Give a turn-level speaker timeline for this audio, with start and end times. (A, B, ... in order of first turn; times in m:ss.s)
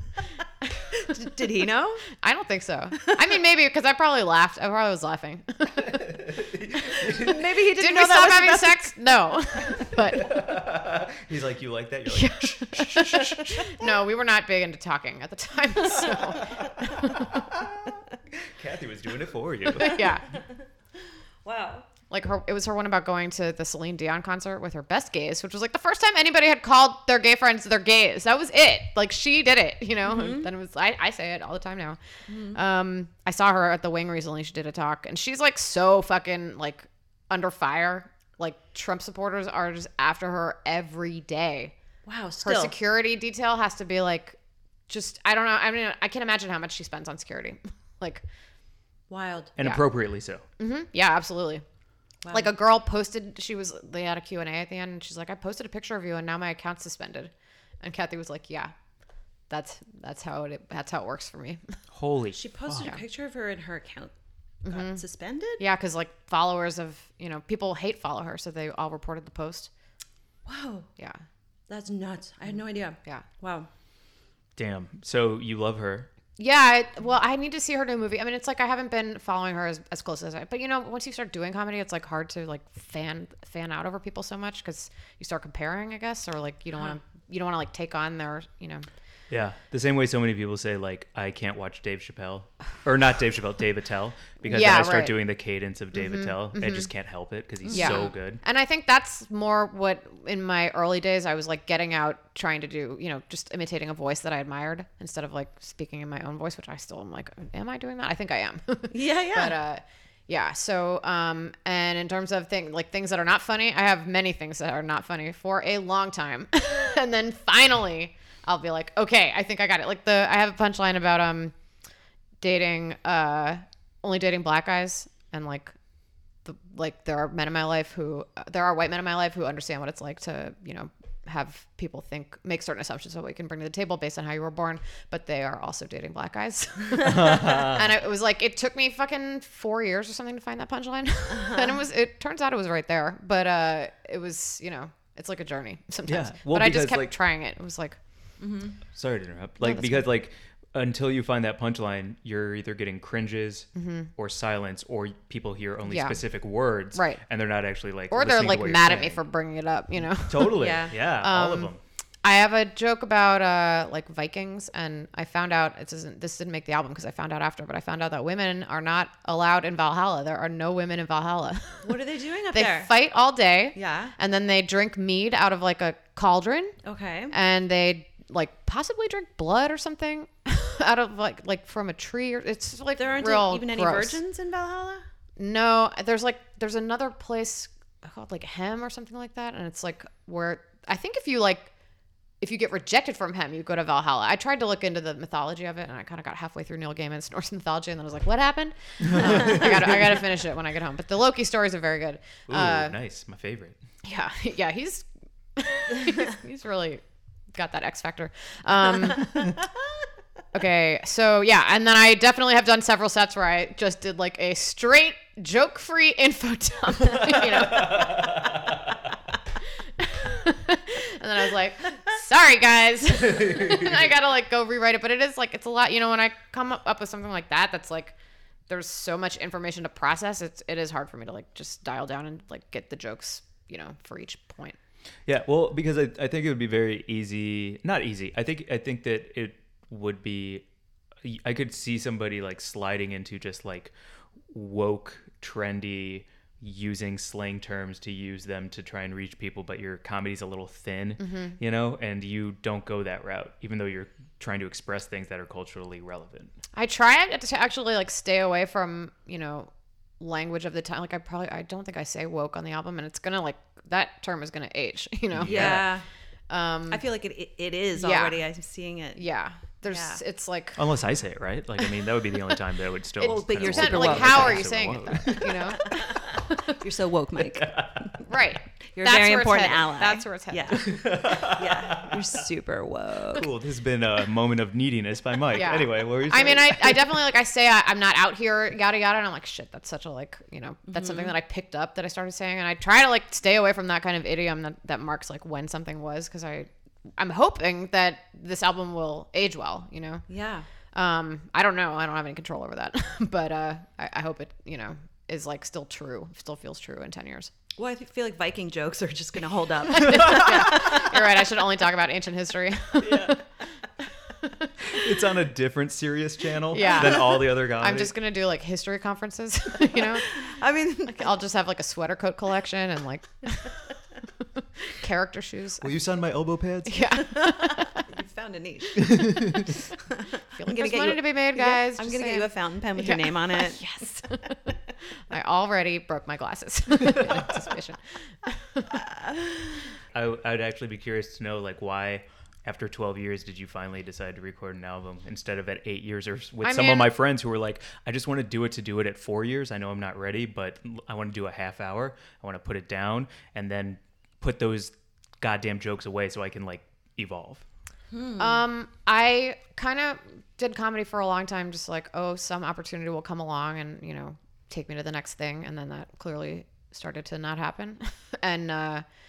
0:00.9-0:02.0 A
0:02.2-0:06.2 B
0:05.9-0:07.4 C
0:07.0-0:08.8 A
0:07.7-0:10.4 B
0:10.1-0:13.4 C
0:12.1-0:17.2 B
0:16.5-0:17.8 C
0:18.4-0:20.2 C
0:19.8-0:20.6 A
0:19.8-0:20.3 B
0:21.4-0:21.9 A
0:22.1-0:32.0 B
0:30.0-0:30.5 A
0:32.3-0:32.6 A
0:32.5-0:41.7 B
0:42.0-0:42.8 A
0:42.4-0:44.4 B
0:44.9-0:48.2 B
0:49.1-0:49.6 A
0:49.6-0:50.4 C
0:49.6-0:49.9 B
0:50.6-0:51.6 B
0:52.2-0:52.5 A
0:52.3-0:58.7 B
0:59.5-1:01.6 B
1:01.9-1:02.9 C
1:02.3-1:04.1 A
1:04.6-1:05.0 B
1:04.6-1:05.6 A
1:05.6-1:09.7 B
1:10.4-1:10.9 A
1:11.7-1:13.7 A
1:14.6-1:16.1 C
1:16.4-1:28.9 B
1:29.3-1:38.4 C
1:34.4-1:35.2 B
1:35.9-1:36.9 B
1:37.6-1:38.0 A
1:37.7-2:01.5 B
1:48.9-1:49.6 A
2:02.4-2:05.7 B
2:06.4-2:28.0 B
2:17.0-2:17.9 C
2:21.3-2:21.8 A
2:26.0-2:27.1 C
2:28.4-2:28.8 A
2:28.9-2:39.2 C
2:29.6-2:30.0 B
2:33.8-2:34.1 B
2:35.8-2:36.2 B
2:36.9-2:37.2 B
2:38.1-2:41.7 B
2:40.3-2:41.8 C
2:40.5-2:41.0 A
2:42.2-2:52.0 B
2:51.8-2:52.9 A
2:52.5-2:56.8 B
2:53.7-2:54.1 A
2:56.8-2:57.3 A
2:57.3-3:04.2 B
3:03.0-3:05.0 A
3:05.4-3:11.7 B
3:12.4-3:22.9 B
3:19.1-3:19.6 C
3:22.5-3:23.8 C
3:24.0-3:27.0 B
3:27.5-3:29.6 B
3:30.5-3:38.4 B
3:37.8-3:38.6 C
3:40.0-3:48.1 B
3:48.7-3:54.8 B
3:55.3-4:00.6 C
4:01.2-4:03.9 C
4:04.5-4:16.5 C
4:11.2-4:11.6 B
4:16.7-4:25.9 B
4:25.3-4:25.9 C
4:25.4-4:26.0 A
4:26.5-4:27.0 B
4:26.9-4:29.2 A
4:27.9-4:28.4 B
4:29.2-4:30.8 B
4:29.8-4:30.2 A
4:30.8-4:35.7 C
4:33.2-4:34.8 A
4:33.2-4:36.8 B
4:35.6-4:38.2 A
4:37.6-4:38.0 C
4:38.2-4:41.0 B
4:38.9-4:43.5 A
4:40.7-4:42.3 C
4:43.3-4:47.2 C
4:45.5-5:00.2 B
4:50.9-4:51.3 A
5:00.3-5:00.7 A
5:00.9-5:07.5 B
5:07.7-5:11.2 A
5:09.9-5:13.4 B
5:13.0-5:13.4 C
5:14.4-5:14.7 B
5:14.8-5:18.1 C
5:16.7-5:20.4 B
5:19.9-5:21.2 A
5:21.1-5:23.8 B
5:24.8-5:25.9 B
5:25.8-5:27.1 C
5:26.9-5:28.0 B
5:27.3-5:33.8 A
5:29.0-5:29.6 C
5:30.5-5:34.6 B
5:35.3-5:39.0 B
5:38.9-5:39.8 A
5:40.1-5:57.6 C
5:46.6-5:47.1 B
5:58.1-5:58.6 A
5:58.4-6:09.0 B